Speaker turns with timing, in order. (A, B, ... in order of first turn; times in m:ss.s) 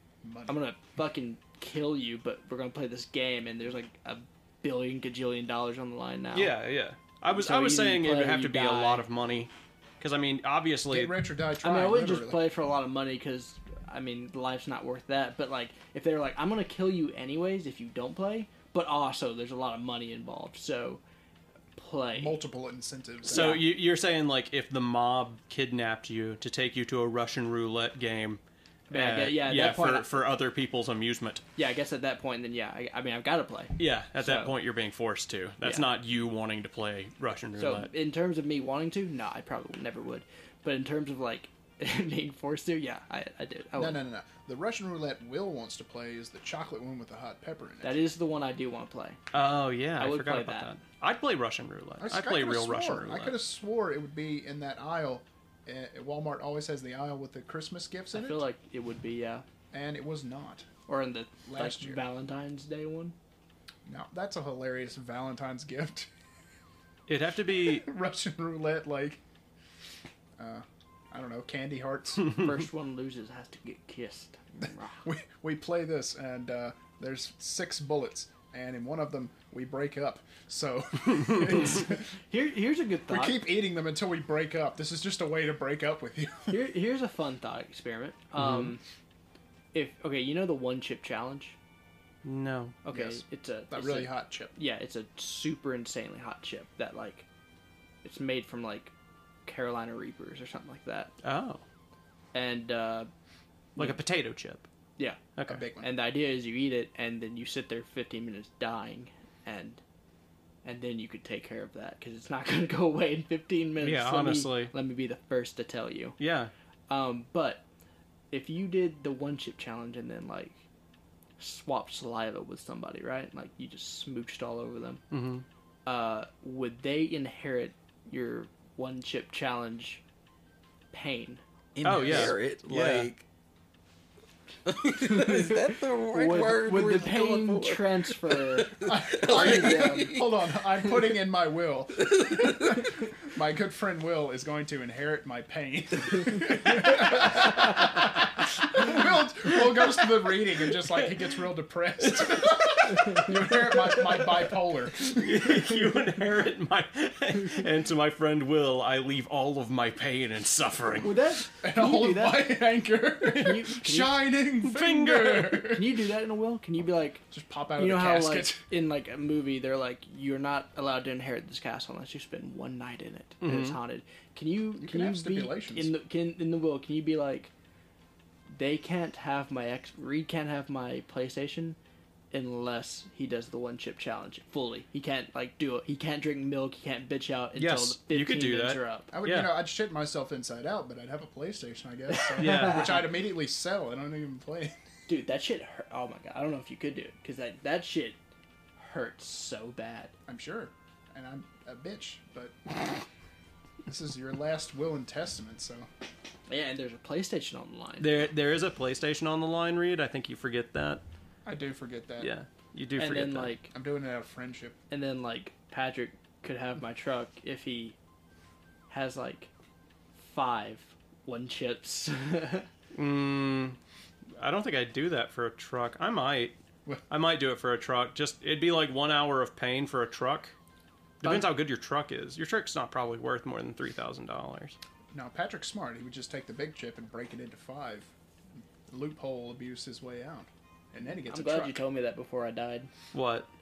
0:00.2-0:00.6 A
0:00.5-0:06.6 B
0:06.3-0:11.2 C
0:07.3-0:09.0 B
0:10.9-0:12.4 A
0:11.6-0:21.0 B
0:21.8-0:22.4 B
0:22.2-0:23.6 A
0:23.3-0:31.4 C
0:23.3-0:23.7 B
0:28.9-0:30.2 B
0:31.6-0:34.5 B
0:33.8-0:37.9 C
0:37.6-0:44.0 B
0:43.8-0:48.0 A
0:47.8-0:49.2 B
0:49.3-0:53.4 C
0:50.0-0:50.7 B
0:52.0-0:58.4 A
0:58.1-0:59.4 B
0:59.7-1:00.7 A
1:00.9-1:03.2 B
1:01.5-1:02.0 A
1:03.9-1:06.1 A
1:07.1-1:07.9 C
1:07.6-1:09.2 A
1:10.4-1:12.4 A
1:12.3-1:15.0 B
1:14.6-1:22.1 A
1:21.8-1:23.4 B
1:23.1-1:26.6 A
1:26.5-1:28.8 B
1:28.4-1:28.7 C
1:29.7-1:31.6 B
1:32.2-1:32.8 C
1:32.8-1:37.3 B
1:32.9-1:34.6 A
1:38.0-1:38.9 B
1:39.5-1:41.1 B
1:41.2-1:41.6 C
1:42.3-1:43.1 B
1:43.8-1:44.6 C
1:45.0-1:45.2 B
1:45.4-1:45.6 C
1:45.5-1:45.9 A
1:45.8-1:49.8 B
1:50.6-1:56.2 B
1:53.8-1:54.7 C
1:56.2-1:56.5 C
1:56.9-1:57.6 B
1:58.3-2:00.6 B
2:01.4-2:05.0 B
2:05.1-2:05.4 C
2:05.9-2:10.0 B
2:10.9-2:11.4 B
2:11.8-2:13.2 D
2:11.8-2:13.1 C
2:14.7-2:21.0 D
2:14.9-2:20.1 B
2:18.8-2:35.7 A
2:22.0-2:22.9 D
2:32.0-2:34.4 C
2:35.0-2:41.2 C
2:41.0-2:42.6 B
2:41.6-2:46.0 A
2:43.2-2:44.1 B
2:44.6-2:45.7 C
2:45.7-2:47.2 B
2:47.3-2:48.6 A
2:47.8-2:57.5 B
2:53.4-2:53.8 C
2:54.8-2:55.9 A
2:58.5-3:01.8 B
3:02.3-3:09.1 B
3:07.6-3:09.6 C
3:09.1-3:14.8 A
3:12.2-3:13.0 B
3:12.4-3:13.0 C
3:15.1-3:18.2 B
3:18.8-3:20.1 B
3:20.3-3:22.7 A
3:23.8-3:25.9 A
3:26.5-3:28.2 B
3:28.0-3:31.0 C
3:31.4-3:32.3 A
3:32.2-3:33.6 C
3:33.0-3:33.7 B
3:33.7-3:34.8 A
3:34.9-3:38.0 B
3:38.9-3:39.5 B
3:40.2-3:42.7 B
3:42.9-3:43.8 C
3:44.4-3:46.6 C
3:47.1-3:50.5 C
3:51.2-3:54.8 C
3:51.2-3:51.5 B
3:55.1-3:58.1 A
3:58.9-4:01.8 A
4:01.3-4:02.9 B
4:03.1-4:03.5 C